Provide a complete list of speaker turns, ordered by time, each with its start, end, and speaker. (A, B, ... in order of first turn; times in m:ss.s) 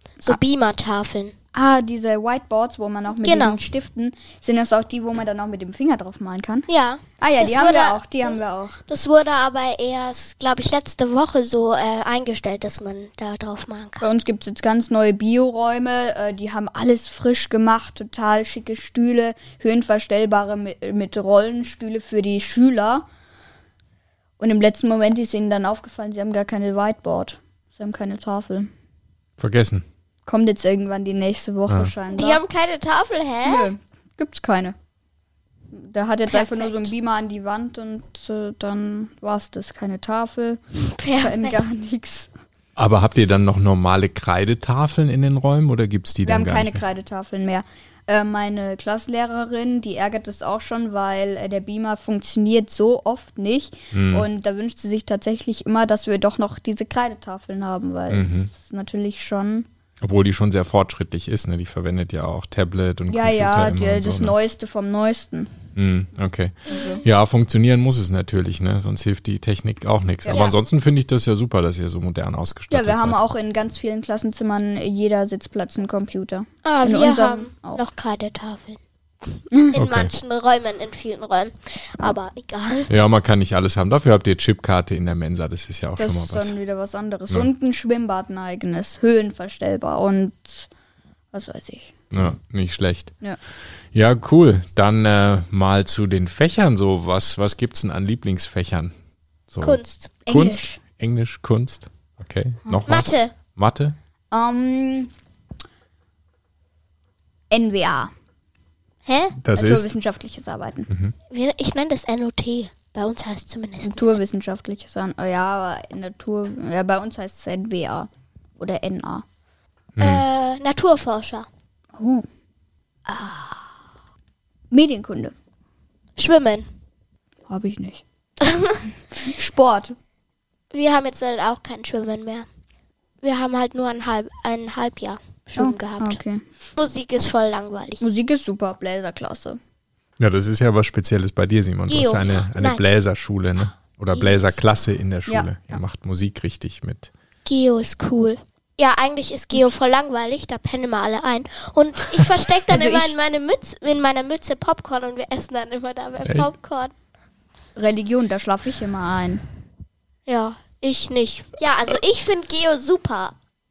0:00.2-0:01.4 A
0:01.5-0:06.7 B
0:03.1-0:03.6 A
0:06.7-0:14.0 A
0:07.2-0:08.8 B
0:14.0-0:23.1 B
0:24.4-0:28.7 B
0:29.4-0:29.9 C
0:30.3-0:32.4 B
0:32.1-0:33.7 A
0:33.4-0:34.8 B
0:35.7-0:40.6 B
0:36.3-0:36.9 A
0:40.8-0:41.6 A
0:41.2-0:42.3 B
0:42.8-0:46.8 C
0:46.2-0:59.7 B
0:53.9-0:54.3 C
0:58.1-0:58.5 C
1:00.0-1:04.4 C
1:03.1-1:05.5 B
1:05.8-1:13.2 C
1:06.7-1:07.0 B
1:06.7-1:07.0 A
1:10.3-1:10.6 A
1:12.7-1:17.8 B
1:16.6-1:22.9 A
1:19.5-1:19.8 B
1:19.7-1:20.1 C
1:22.9-1:26.6 C
1:26.0-1:30.7 B
1:31.3-1:31.9 B
1:32.1-1:33.1 C
1:33.9-1:38.9 C
1:39.5-1:44.0 C
1:39.6-1:40.2 A
1:40.3-1:40.8 B
1:42.9-1:43.3 A
1:44.3-1:45.1 B
1:47.5-1:48.1 B
1:49.1-1:49.4 A
1:49.4-1:49.9 C
1:49.5-1:50.9 B
1:50.9-1:51.1 C
1:51.3-1:54.2 A
1:53.8-1:59.2 B
2:00.0-2:00.2 C
2:00.0-2:01.5 A
2:02.0-2:02.3 B
2:03.1-2:03.6 B
2:04.7-2:05.3 B
2:06.2-2:06.7 A
2:07.5-2:08.0 B
2:08.4-2:08.9 A
2:09.2-2:10.0 B
2:10.7-2:12.5 A
2:13.2-2:16.2 A
2:15.6-2:16.4 B
2:16.8-2:18.0 A
2:18.0-2:19.6 B
2:20.2-2:27.1 C
2:21.9-2:22.8 A
2:24.1-2:24.5 A
2:25.3-2:25.8 B
2:27.4-2:36.9 A
2:32.7-2:33.2 B
2:36.2-2:36.5 C
2:37.8-2:39.4 B
2:40.3-2:43.4 A